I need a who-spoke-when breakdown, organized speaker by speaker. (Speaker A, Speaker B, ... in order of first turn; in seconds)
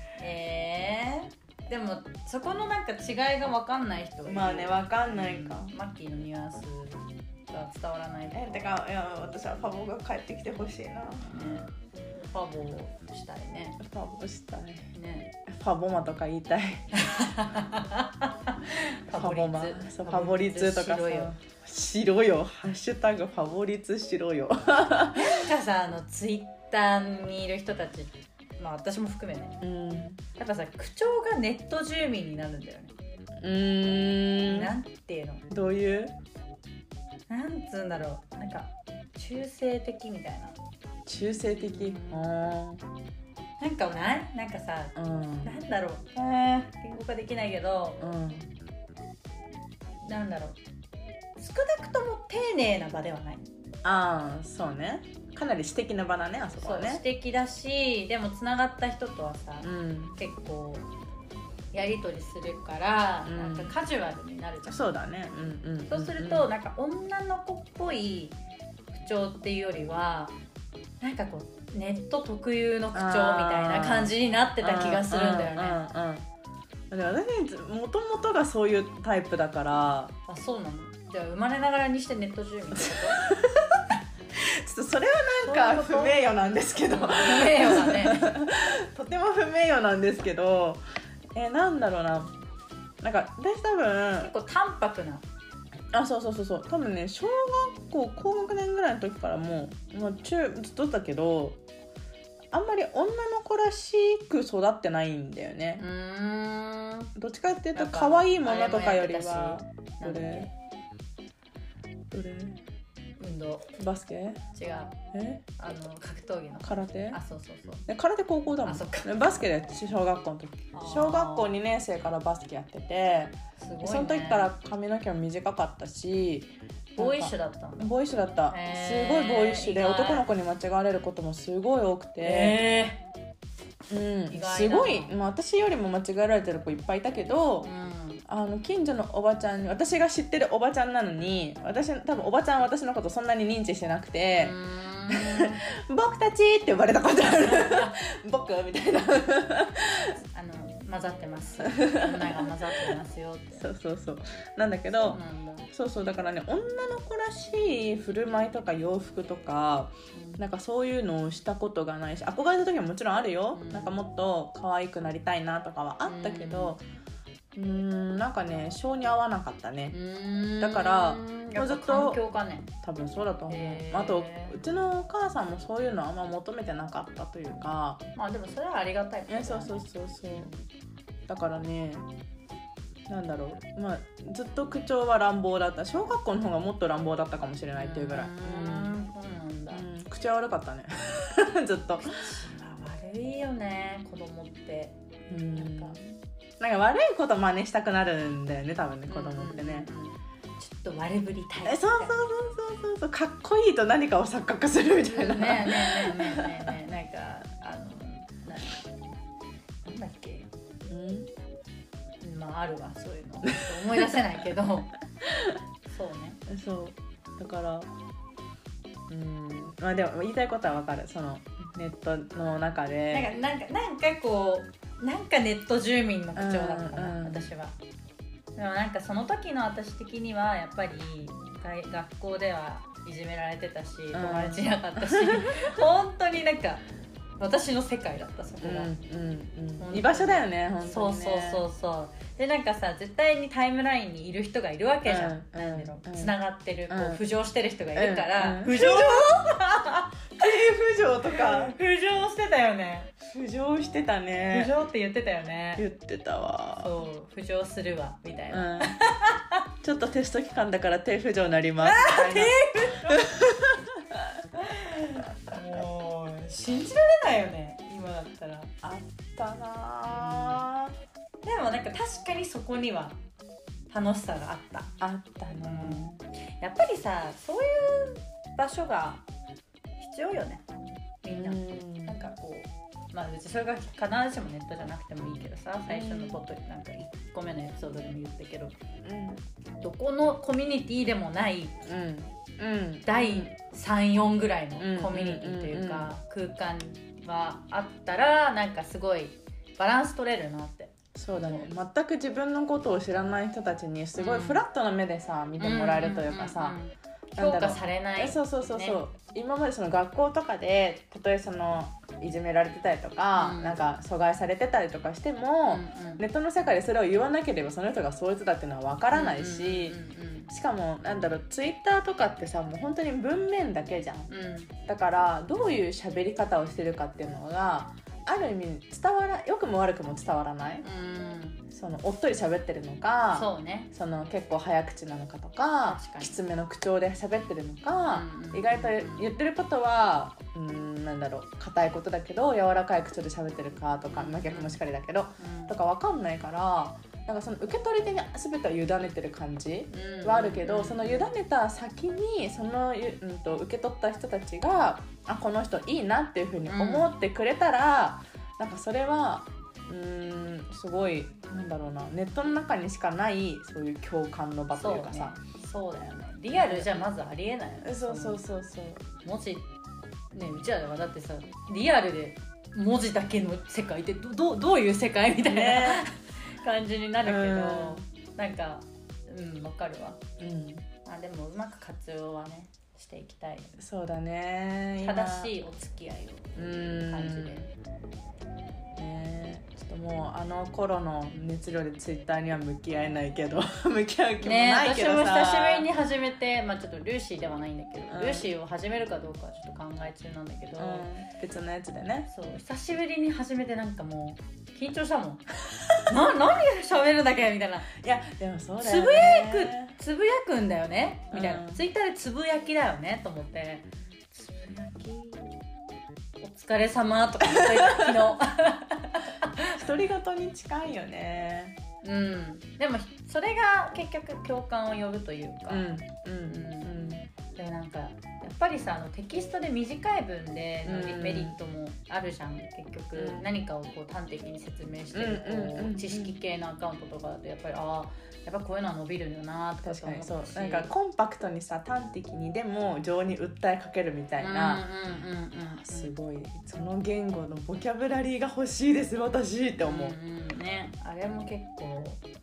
Speaker A: 0.2-8.8, 11.2-13.8, 14.9-15.3, 16.9-21.3, 25.1-29.6, 30.4-32.9, 34.4-35.5, 37.3-40.6, 41.4-42.3, 43.6-48.0, 50.0-50.6, 51.4-53.5, 56.6-60.9, 61.7-64.8, 65.9-68.4, 68.9-70.3, 71.0-75.8, 80.3-83.3, 85.4-86.2, 86.9-88.3, 94.1-95.2, 105.8-107.1, 107.7-110.5, 113.2-113.7, 114.5-115.0, 115.6-117.8, 118.6-119.1, 120.7-121.5, 123.6-124.5, 127.0-127.9, 128.5-130.3, 132.2-133.0, 134.3-135.1, 137.6-138.2, 144.3-145.6, 147.2-148.0, 150.3-153.7, 154.9-155.7, 160.1-160.4, 163.5-164.0, 166.0-166.8, 169.9-172.7, 173.5-174.5, 178.2-180.6, 187.7-189.8, 192.0-194.9, 195.5-196.2, 199.1-202.1, 205.0-208.9, 209.8-210.5, 212.2-214.9, 215.9-216.4, 223.1-227.8, 228.6-236.8, 237.4-238.9, 239.8-250.3, 251.3-253.1, 254.5-255.8, 256.8-259.6, 261.8-263.3, 264.6-268.7, 270.1-270.6, 271.4-273.2, 273.9-274.9, 275.6-279.2, 280.0-280.6, 281.2-288.7, 289.8-291.8, 293.0-301.7, 304.1-304.6, 305.6-309.0, 313.3-313.8, 315.7-316.2, 319.1-320.5, 324.3-324.7, 330.8-331.6, 333.3-333.9, 335.8-336.4, 338.1-339.3, 344.1-344.8, 345.4-345.8, 349.9-351.4, 356.6-357.1, 364.7-368.4, 369.2-369.7, 370.3-380.2, 381.0-383.8, 385.0-387.7, 394.4-401.1, 402.3-405.4, 406.0-407.9, 408.8-415.5, 416.4-419.8, 422.0-425.9, 426.4-440.9, 444.4-446.1, 449.8-452.2
Speaker B: 4.2-5.7, 8.3-11.4, 13.8-14.9, 15.4-16.9, 19.1-25.4, 29.6-30.2, 33.4-34.7, 35.5-36.1, 41.0-42.8, 45.0-45.6, 48.0-48.5, 53.8-57.0, 59.6-60.2, 63.2-63.7, 64.7-66.5, 72.9-76.3, 76.9-80.1, 82.9-90.8, 91.3-92.3, 93.0-94.3, 95.9-101.6, 102.5-105.8, 107.1-110.5, 112.1-112.6, 113.8-114.4, 115.1-115.4, 116.6-117.2, 117.9-132.6, 133.9-137.7, 138.2-144.6, 145.1-150.2, 151.6-152.9, 153.6-155.2, 155.7-166.8, 167.5-170.0, 170.6-172.2, 172.8-178.0, 179.3-180.5, 181.3-182.1, 183.1-189.0, 189.7-192.2, 195.3-196.0, 196.6-199.9, 201.6-206.7, 210.8-211.3, 213.8-214.1, 215.2-215.6, 216.5-217.9, 219.1-223.3, 226.3-227.5, 234.1-235.8, 238.6-241.7, 245.1-246.3, 246.9-247.2, 247.9-249.6, 250.3-251.7, 253.2-254.7, 255.8-256.9, 258.5-259.0, 259.8-264.4, 268.8-270.9, 275.0-276.2, 281.3-282.2, 285.9-286.4, 289.0-289.4, 291.8-293.5, 294.8-296.1, 301.1-306.8, 307.4-324.3, 324.9-330.8, 331.7-365.4, 366.5-366.9, 367.8-369.1, 375.4-376.1, 377.2-378.0, 380.4-380.9, 383.8-385.5, 386.6-387.7, 389.0-395.9, 398.1-398.4, 400.8-402.3, 407.9-409.9, 411.3-411.8, 417.4-418.3, 419.8-421.8, 425.7-427.2, 430.8-431.6, 433.1-433.4, 435.1-436.3, 439.8-444.8, 445.8-450.1